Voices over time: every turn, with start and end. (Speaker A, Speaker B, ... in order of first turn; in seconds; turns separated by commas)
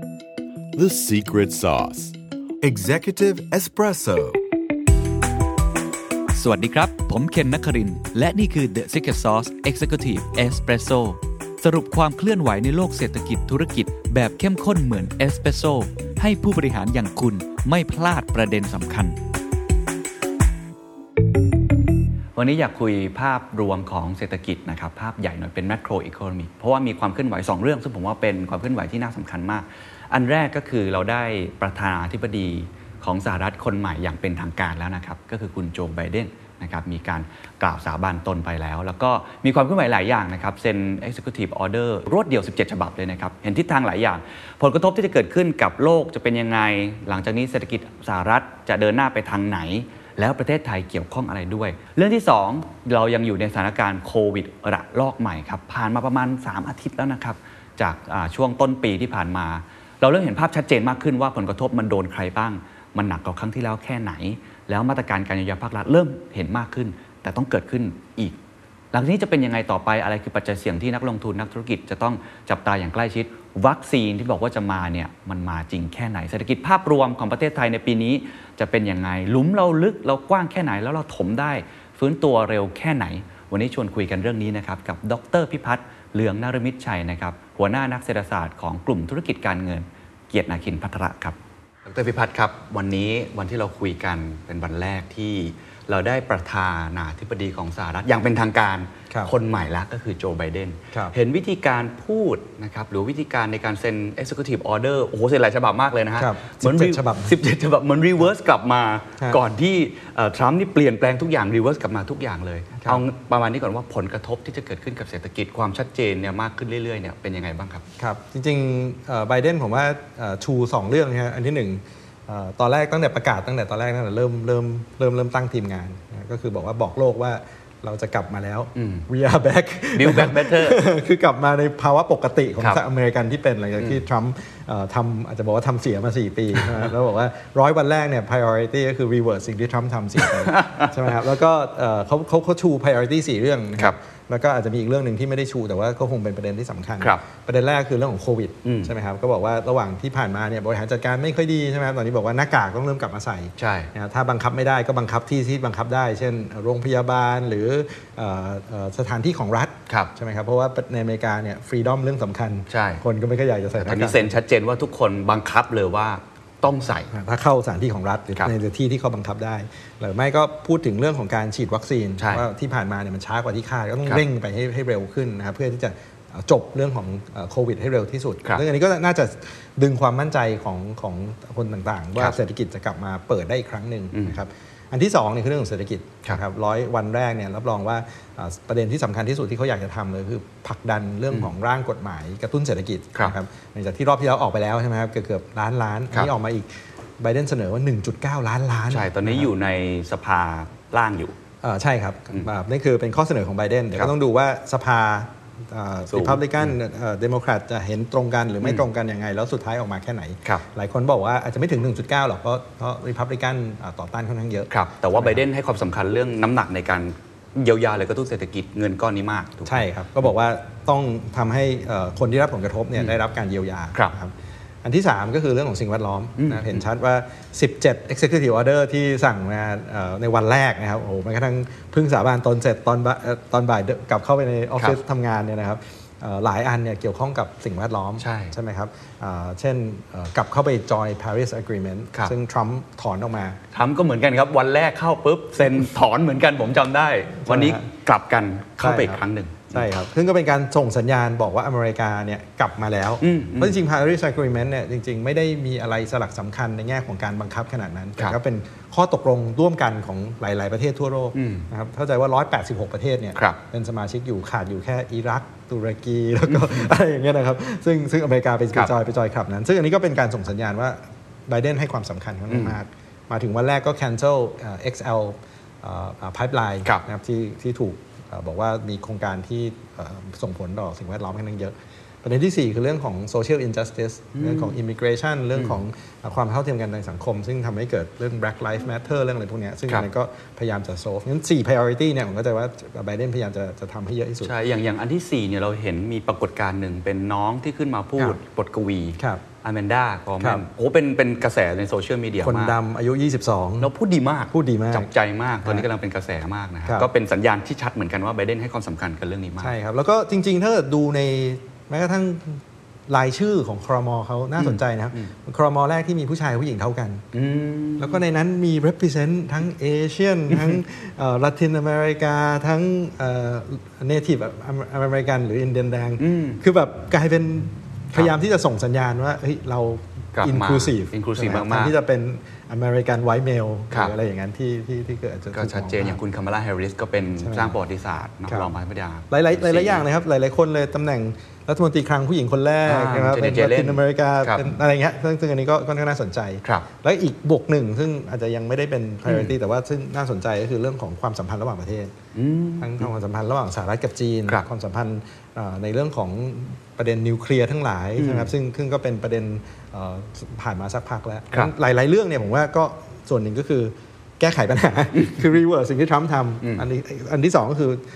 Speaker A: 0.8-4.4, Speaker B: 6.3-19.2, Speaker B: 22.3-68.4, Speaker B: 68.9-117.8, Speaker C: 106.2-107.3, Speaker C: 112.8-113.0, Speaker C: 118.0-164.3, Speaker B: 128.8-129.1, Speaker B: 129.9-130.8, Speaker B: 140.2-140.8, Speaker B: 148.6-148.9, Speaker B: 153.6-153.9, Speaker B: 162.7-163.0, Speaker B: 163.8-167.1, Speaker C: 167.1-199.5, Speaker B: 172.2-172.4, Speaker B: 198.9-201.3, Speaker C: 201.6-215.4, Speaker B: 206.1-206.4, Speaker B: 214.7-219.8, Speaker C: 219.7-243.6, Speaker B: 226.4-226.8, Speaker B: 238.2-238.5, Speaker B: 243.7-249.9, Speaker C: 247.4-247.9, Speaker C: 248.8-294.5, Speaker B: 253.2-253.8, Speaker B: 261.3-261.7, Speaker B: 266.5-266.9, Speaker B: 272.5-272.8, Speaker B: 284.4-284.7, Speaker B: 294.4-302.8, Speaker C: 300.4-300.6, Speaker C: 302.4-303.9, Speaker B: 303.8-309.7, Speaker C: 304.5-305.1, Speaker C: 309.6-317.2, Speaker B: 314.6-315.3, Speaker B: 317.3-318.2, Speaker C: 318.0-336.2, Speaker B: 320.5-320.8, Speaker B: 326.2-326.6, Speaker B: 330.4-331.9, Speaker B: 335.5-340.0, Speaker C: 337.4-337.7, Speaker C: 339.3-352.1, Speaker B: 342.9-344.7, Speaker B: 349.2-349.5, Speaker B: 352.3-353.1, Speaker C: 352.8-368.0, Speaker B: 358.2-358.5, Speaker B: 365.1-365.4